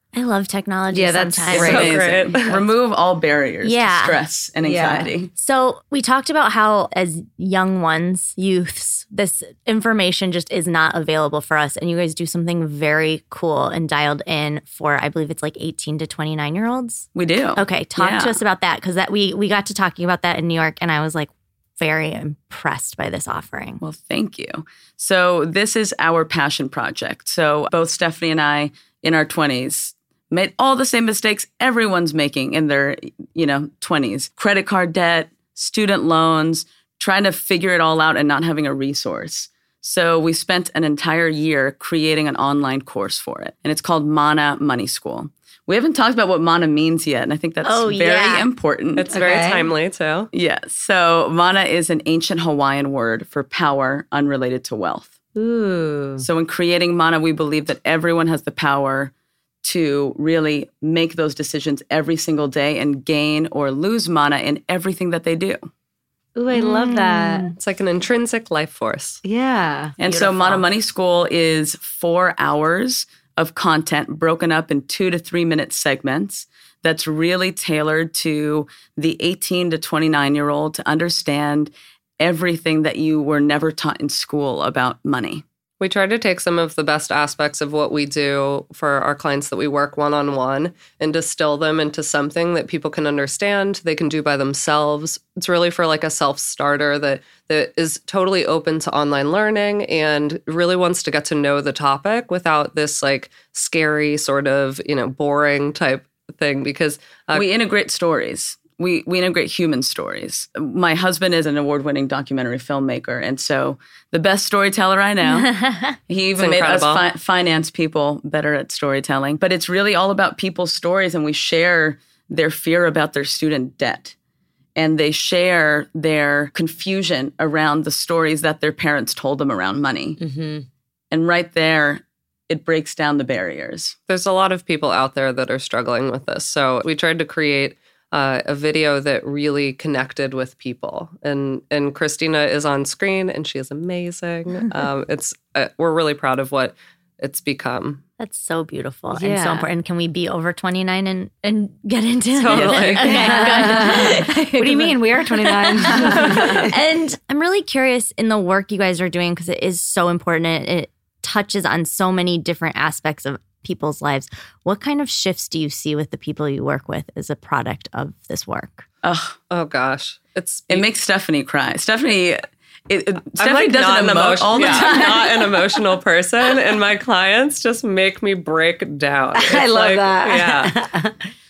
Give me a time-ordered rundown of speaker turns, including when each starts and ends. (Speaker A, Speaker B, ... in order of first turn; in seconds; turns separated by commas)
Speaker A: 0.1-1.9, Speaker B: 0.9-2.0, Speaker C: 1.5-5.3, Speaker D: 1.6-2.6, Speaker A: 3.6-4.2, Speaker B: 4.6-5.1, Speaker A: 5.4-23.8, Speaker C: 17.1-18.4, Speaker C: 23.8-49.2, Speaker A: 47.6-48.5, Speaker D: 49.0-50.3, Speaker B: 49.1-49.7, Speaker C: 50.3-55.1, Speaker B: 55.4-56.3, Speaker C: 56.2-59.1, Speaker C: 59.6-65.7, Speaker B: 66.3-67.5, Speaker A: 66.5-67.5, Speaker D: 67.5-69.2, Speaker B: 69.2-70.0, Speaker C: 70.0-85.4, Speaker A: 70.0-70.7, Speaker D: 85.8-107.5, Speaker C: 107.3-115.5, Speaker A: 115.3-116.0, Speaker C: 116.1-124.2, Speaker D: 116.4-117.0, Speaker C: 124.8-130.2, Speaker B: 130.2-130.7, Speaker C: 131.1-134.0, Speaker D: 134.1-148.0, Speaker A: 148.2-168.9, Speaker B: 149.1-149.7, Speaker D: 152.4-153.3, Speaker C: 152.5-152.9, Speaker B: 153.0-156.8, Speaker C: 169.0-169.4, Speaker D: 169.5-170.9, Speaker C: 170.7-175.5, Speaker D: 173.4-180.7, Speaker B: 179.3-181.2